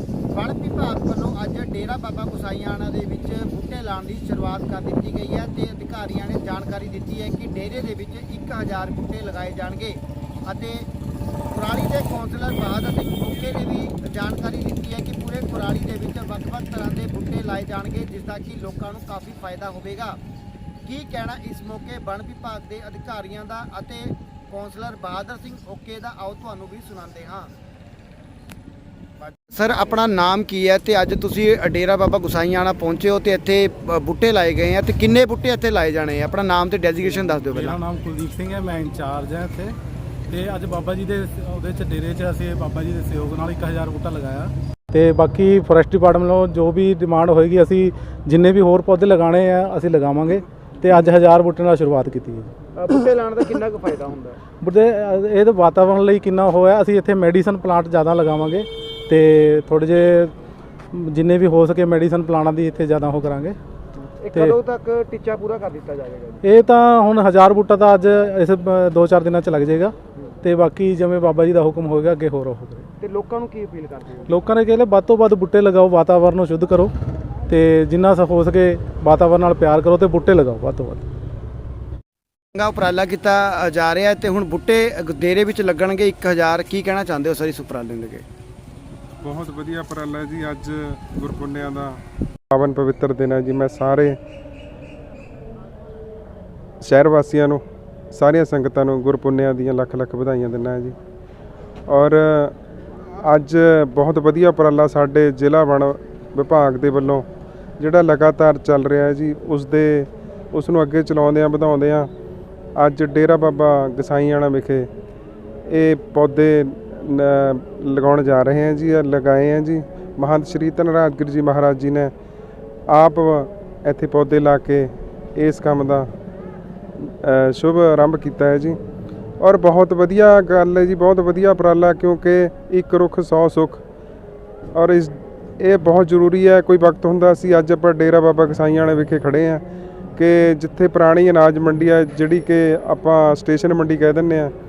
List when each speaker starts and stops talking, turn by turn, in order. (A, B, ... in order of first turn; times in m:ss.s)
0:00.3-0:10.9 A
0:11.5-0:20.2 A
0:20.8-0:27.5 A
0:29.2-0:37.8 A
0:37.5-0:39.8 B
0:40.3-0:52.5 B
0:52.8-0:54.4 A
0:54.6-1:00.3 B
1:00.9-1:03.6 B
1:04.2-1:06.4 A
1:06.4-1:12.9 B
1:13.0-1:14.3 A
1:14.3-1:16.9 B
1:17.5-1:21.1 B
1:22.6-1:28.2 A
1:29.2-1:32.0 C
1:32.5-1:34.2 C
1:36.8-1:41.0 C
1:41.9-1:47.3 C
1:47.8-1:52.1 C
1:52.8-1:54.9 C
1:55.7-2:02.1 C
2:02.9-2:06.1 C
2:07.0-2:08.8 C
2:09.4-2:13.8 C
2:14.8-2:19.6 C
2:20.2-2:24.5 C